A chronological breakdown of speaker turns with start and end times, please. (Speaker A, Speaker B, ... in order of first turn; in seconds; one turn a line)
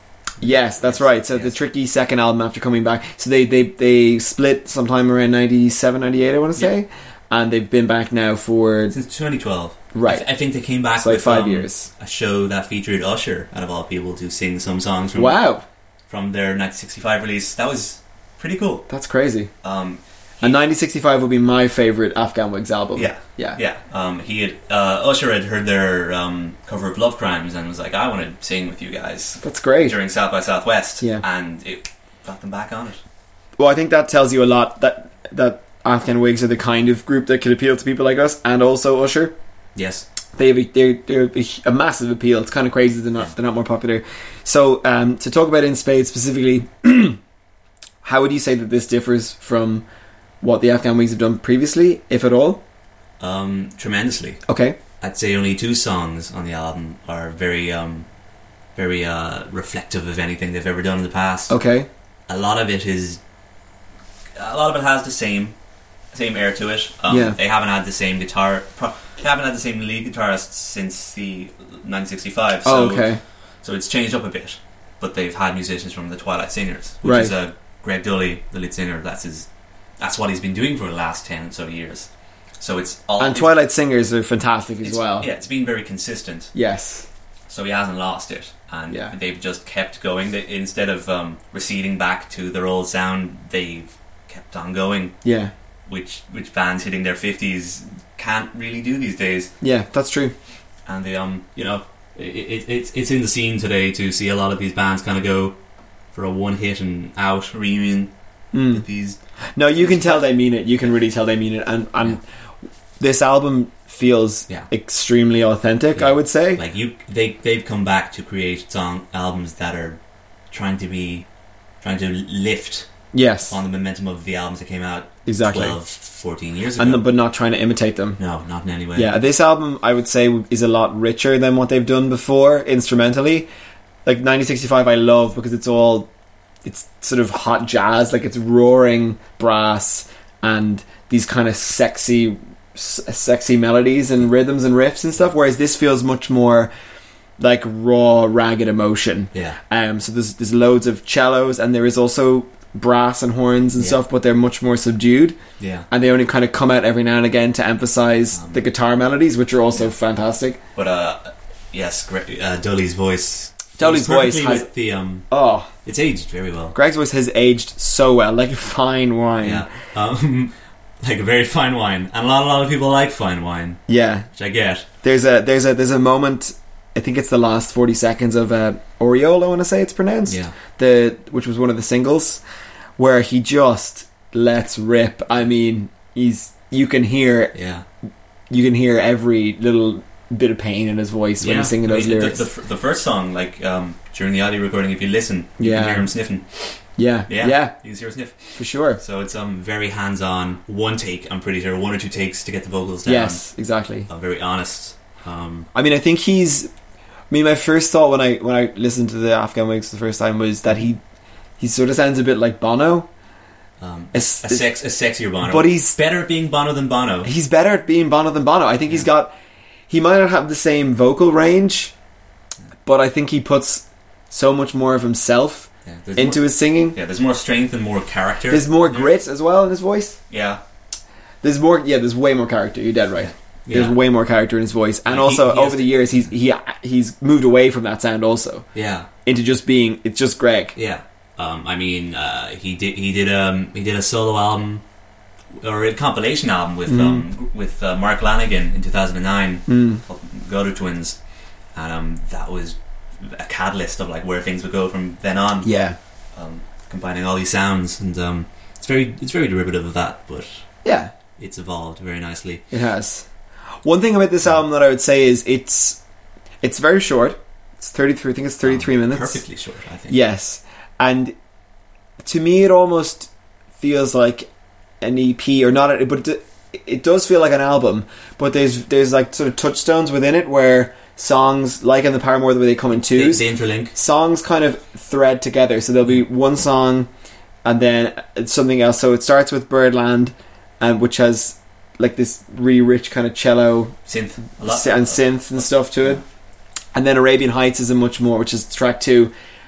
Speaker A: 0.4-8.9
Speaker B: 0.4-1.5
Speaker B: 8.9-15.4
Speaker A: 9.9-10.2
Speaker A: 11.0-11.9
Speaker A: 15.1-15.6
Speaker B: 16.1-18.9
Speaker A: 18.9-19.5
Speaker B: 19.6-20.6
Speaker A: 20.4-23.6
Speaker B: 22.9-33.0
Speaker A: 29.4-29.9
Speaker A: 33.6-39.3
Speaker B: 39.7-40.0
Speaker A: 40.4-47.2
Speaker A: 48.0-49.8
Speaker A: 50.4-52.6
Speaker B: 53.2-54.4
Speaker A: 54.5-54.8
Speaker B: 55.0-58.1
Speaker B: 58.7-61.5
Speaker A: 61.5-61.9
Speaker B: 62.3-63.2
Speaker B: 64.3-65.5
Speaker B: 66.1-73.1
Speaker A: 67.1-67.4
Speaker A: 72.6-73.2
Speaker B: 73.6-79.5
Speaker A: 77.0-77.3
Speaker B: 80.0-83.6
Speaker A: 83.2-85.3
Speaker B: 84.8-86.5
Speaker A: 86.5-87.1
Speaker B: 87.5-95.2
Speaker A: 95.2-95.5
Speaker B: 95.9-99.5
Speaker A: 99.6-100.3
Speaker B: 100.8-105.6
Speaker B: 106.1-108.1
Speaker A: 108.5-108.8
Speaker B: 108.7-109.2
Speaker A: 109.5-112.2
Speaker B: 109.7-110.3
Speaker A: 113.0-116.6
Speaker B: 115.9-120.0
Speaker B: 120.5-121.2
Speaker B: 121.8-122.9
Speaker A: 123.1-123.6
Speaker B: 123.5-127.0
Speaker A: 125.2-125.8
Speaker A: 126.8-128.2
Speaker B: 128.2-129.1
Speaker A: 128.9-133.5
Speaker A: 134.0-136.1
Speaker A: 136.6-146.7
Speaker A: 147.4-155.4
Speaker B: 149.3-149.6
Speaker B: 155.6-155.9
Speaker A: 155.9-160.6
Speaker B: 158.3-158.6
Speaker B: 160.7-165.3
Speaker A: 163.8-164.7
Speaker A: 165.3-165.7
Speaker B: 165.8-166.7
Speaker A: 166.7-169.7
Speaker B: 169.4-173.8
Speaker A: 173.9-174.3
Speaker B: 174.3-174.8
Speaker A: 175.0-182.4
Speaker B: 180.3-180.5
Speaker A: 183.0-187.5
Speaker B: 187.5-187.8
Speaker A: 188.5-192.4
Speaker B: 191.4-196.6
Speaker A: 195.6-196.1
Speaker A: 197.0-197.7
Speaker B: 197.3-203.4
Speaker A: 198.5-199.0
Speaker A: 203.0-204.1
Speaker B: 204.1-205.7
Speaker A: 205.7-206.7
Speaker A: 207.3-211.0
Speaker A: 211.6-213.1
Speaker B: 213.8-217.3
Speaker A: 214.1-214.7
Speaker A: 215.4-216.0
Speaker A: 217.2-219.3
Speaker A: 219.9-221.9
Speaker A: 222.8-226.9
Speaker B: 225.8-229.1
Speaker A: 228.5-230.2
Speaker B: 230.3-230.6
Speaker A: 231.4-238.7
Speaker B: 233.2-234.0
Speaker B: 235.0-236.2
Speaker B: 238.7-239.1
Speaker A: 239.2-240.8
Speaker B: 240.7-244.8
Speaker B: 245.5-251.2
Speaker A: 246.9-247.2
Speaker A: 249.7-250.0
Speaker B: 251.7-255.7
Speaker A: 255.6-255.9
Speaker B: 256.3-260.6
Speaker A: 260.8-261.1
Speaker B: 261.4-262.6
Speaker A: 262.7-263.3
Speaker A: 263.8-266.0
Speaker A: 266.6-269.4
Speaker B: 268.6-270.2
Speaker A: 270.1-271.3
Speaker A: 272.2-274.5
Speaker A: 275.0-287.1
Speaker B: 282.9-283.9
Speaker A: 287.6-293.9
Speaker B: 294.1-296.1
Speaker A: 294.5-296.2
Speaker A: 296.9-299.3